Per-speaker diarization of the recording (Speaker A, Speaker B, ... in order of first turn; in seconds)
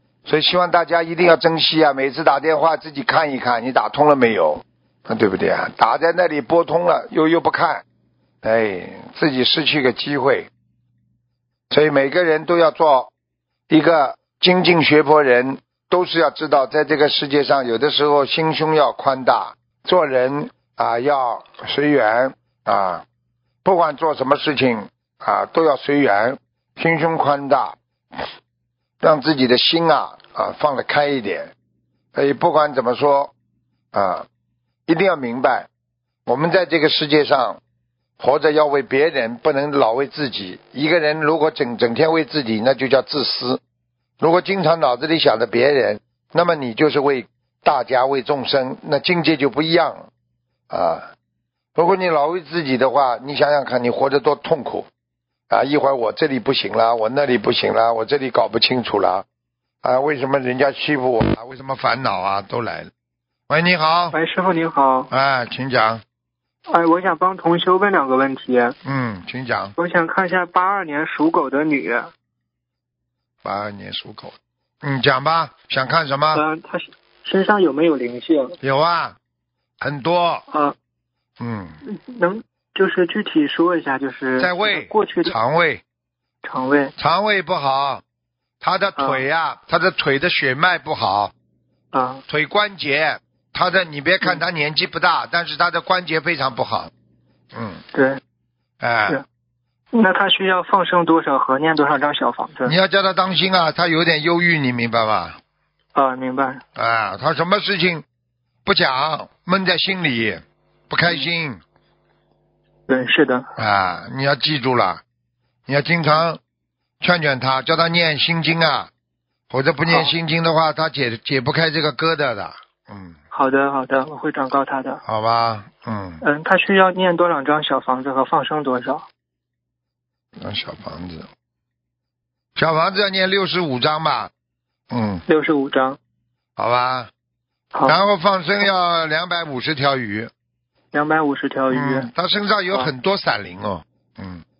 Speaker A: 0.2-7.8, 8.4-10.5, 11.7-13.1, 13.7-23.0, 23.6-28.2, 29.0-31.5, 32.1-33.3, 33.9-34.2, 34.9-35.7, 36.3-37.6, 38.2-43.6, 44.2-50.1, 50.7-51.1, 51.8-54.9, 55.5-59.2, 59.8-62.9, 63.5-64.2, 65.1-66.0, 68.8-69.7, 73.4-76.4, 78.6-79.2, 79.8-80.4, 81.4-81.8, 84.4-85.8, 87.0-88.0, 88.6-91.3, 92.3-96.9, 97.5-97.8, 98.8-99.2, 102.6-105.4, 106.8-108.0, 108.6-111.6, 113.6-115.0, 115.7-116.4, 117.0-118.9, 119.5-123.2, 125.0-126.2, 130.4-131.3, 132.6-134.3, 134.9-135.2, 136.6-137.1, 137.8-140.3, 141.7-144.4
Speaker B: 64.1-65.1, 66.7-68.7, 69.8-72.1, 76.3-78.5, 81.8-85.3, 86.4-86.9, 89.0-89.2, 91.9-92.2, 97.9-98.2, 99.9-102.7, 105.9-106.6, 112.9-113.5, 119.9-120.1, 123.3-125.0, 126.2-129.1, 135.3-136.0, 140.9-142.1